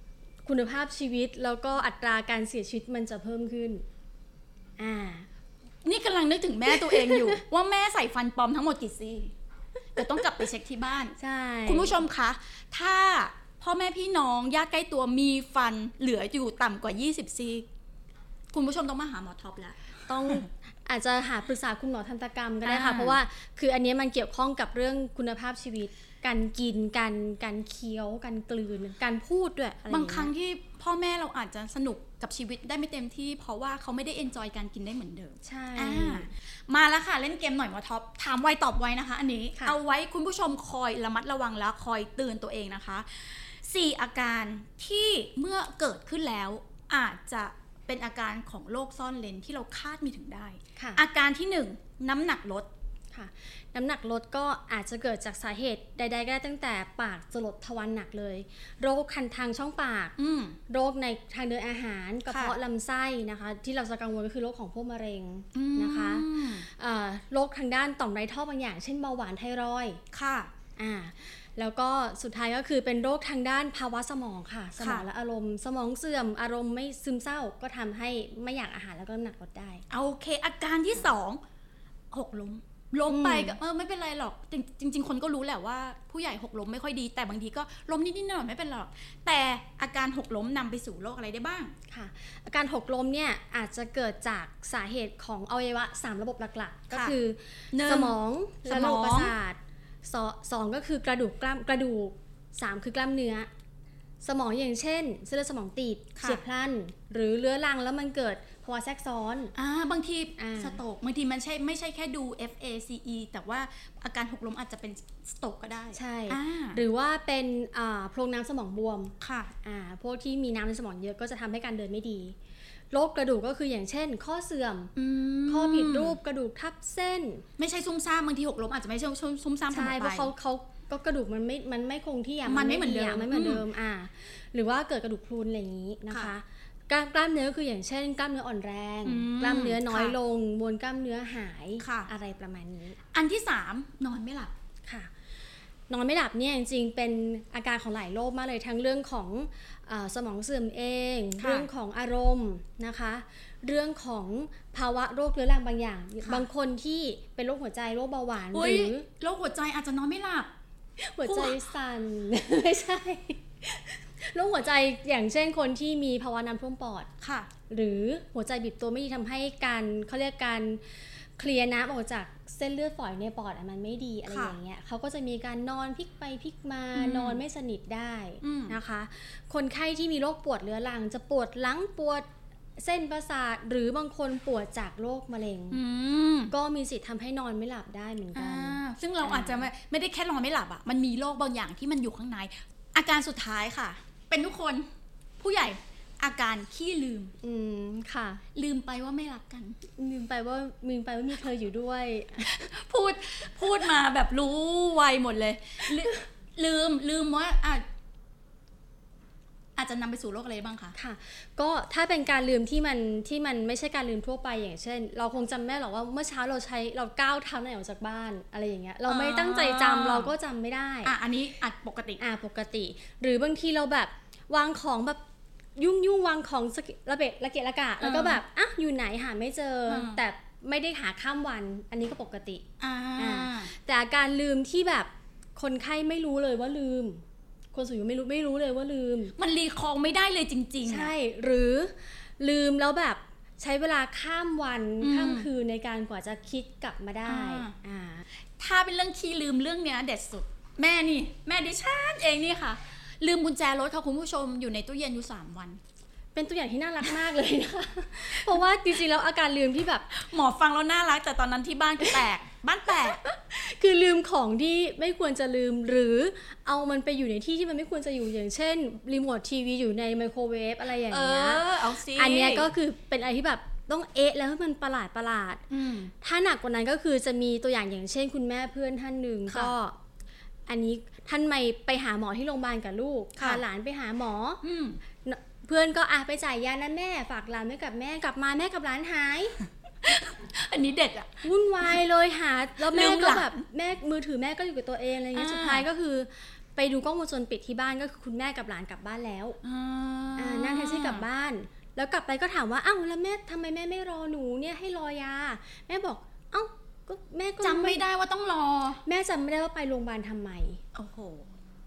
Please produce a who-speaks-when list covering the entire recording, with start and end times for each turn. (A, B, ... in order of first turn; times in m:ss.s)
0:00.4-0:03.8 A
0:04.8-0:05.3 A
0:05.8-0:09.3 B
0:06.7-0:07.4 A
0:10.0-0:17.7 B
0:11.2-0:12.0 A
0:18.5-0:19.8 B
0:20.1-0:30.3 A
0:22.6-0:23.2 B
0:29.9-0:52.7 B
0:35.4-0:36.3 A
0:50.8-0:51.0 A
0:53.1-1:00.2 A
1:00.2-1:00.6 B
1:00.7-1:10.0 A
1:02.3-1:02.6 B
1:05.5-1:06.7 B
1:10.1-1:10.5 B
1:10.8-1:19.8 A
1:14.8-1:15.1 B
1:19.9-1:21.4 B
1:22.1-1:31.7 B
1:23.1-1:23.6 A
1:31.9-1:43.5 A
1:36.9-1:37.2 B
1:37.7-1:39.4 B
1:44.2-1:49.5 A
1:46.2-1:46.4 B
1:49.6-1:56.8 B
1:50.4-1:50.8 A
1:55.9-2:02.4 A
1:59.2-1:59.5 B
2:02.9-2:04.9 A
2:05.0-2:06.2 B
2:05.5-2:07.5 A
2:07.6-2:10.3 B
2:09.7-2:23.0 A
2:12.4-2:13.6 B
2:19.0-2:20.2 B
2:21.8-2:22.1 B
2:23.1-2:24.5 B
2:25.9-2:39.1 A
2:31.4-2:31.7 B
2:38.5-2:40.5 B
2:41.0-2:47.1 A
2:41.2-2:41.6 B
2:47.2-2:47.5 B
2:47.7-3:05.8 A
2:54.3-2:54.6 B
2:56.9-2:57.4 B
2:58.4-2:58.8 B
3:05.7-3:06.5 B
3:06.5-3:09.7 A
3:08.4-3:14.9 B
3:15.4-3:17.3 B
3:17.4-3:18.4 A
3:18.6-3:19.8 B
3:20.0-3:22.5 A
3:22.4-3:27.8 B
3:29.8-3:31.0 B
3:31.0-3:41.1 A
3:39.1-3:40.3 B
3:41.0-3:42.2 B
3:42.2-3:45.2 A
3:45.8-3:52.6 A
3:48.0-3:48.4 B
3:49.9-3:50.2 B
3:52.8-3:53.7 B
3:53.2-3:57.2 A
3:57.7-3:59.3 A
3:59.4-4:01.1 B
4:00.8-4:08.2 A
4:05.0-4:05.5 B
4:07.3-4:07.8 B
4:08.6-4:15.8 B
4:16.4-4:20.1 A
4:20.1-4:23.2 B
4:23.4-4:35.6 A
4:31.1-4:32.7 B
4:35.7-4:36.1 B
4:36.2-4:40.0 A
4:39.5-4:39.7 B
4:40.7-4:44.6 A
4:43.4-4:43.6 B
4:44.6-4:45.0 B
4:45.2-4:49.6 A
4:50.0-4:51.4 B
4:51.4-4:59.6 A
4:52.8-4:53.6 B
4:55.3-4:55.9 B
4:59.6-5:01.2 B
5:00.4-5:08.0 A
5:07.6-5:09.0 B
5:09.0-5:10.8 A
5:11.0-5:11.5 B